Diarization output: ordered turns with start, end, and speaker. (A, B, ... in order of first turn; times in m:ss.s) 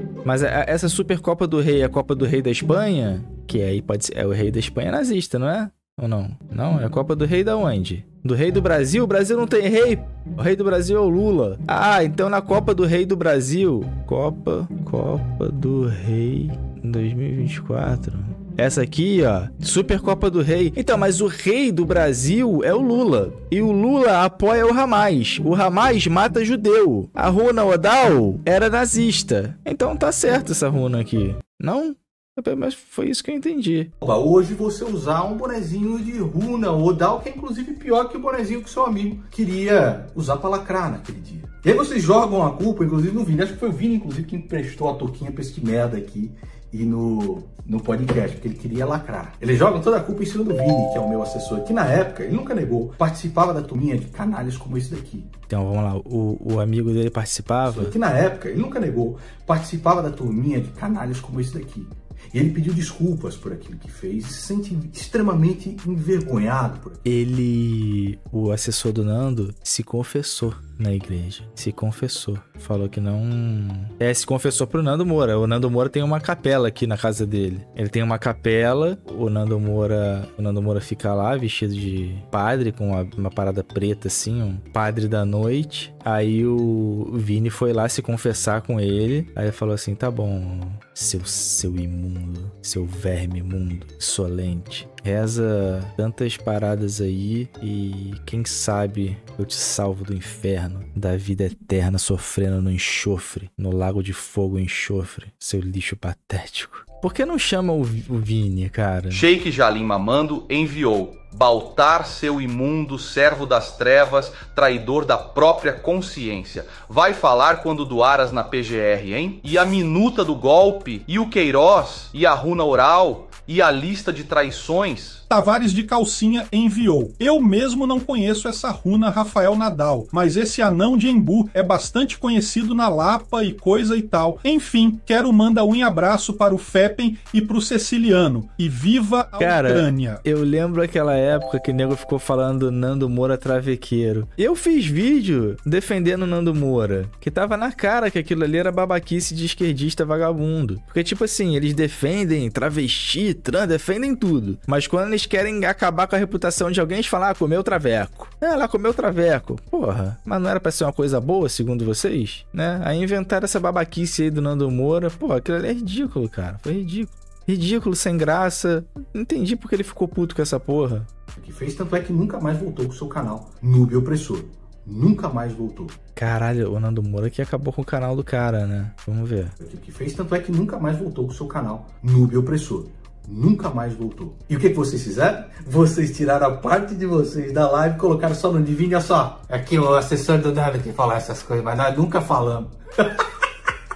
0:00.2-0:33.9 A
0:34.0-0:55.3 B
0:55.5-0:57.9 A
0:57.7-1:07.0 B
1:07.0-1:49.2 A
1:49.1-2:05.2 C
2:05.3-2:20.2 D
2:19.4-2:51.1 A
2:51.4-2:56.0 B
2:56.2-2:59.6 A
2:59.6-3:13.2 B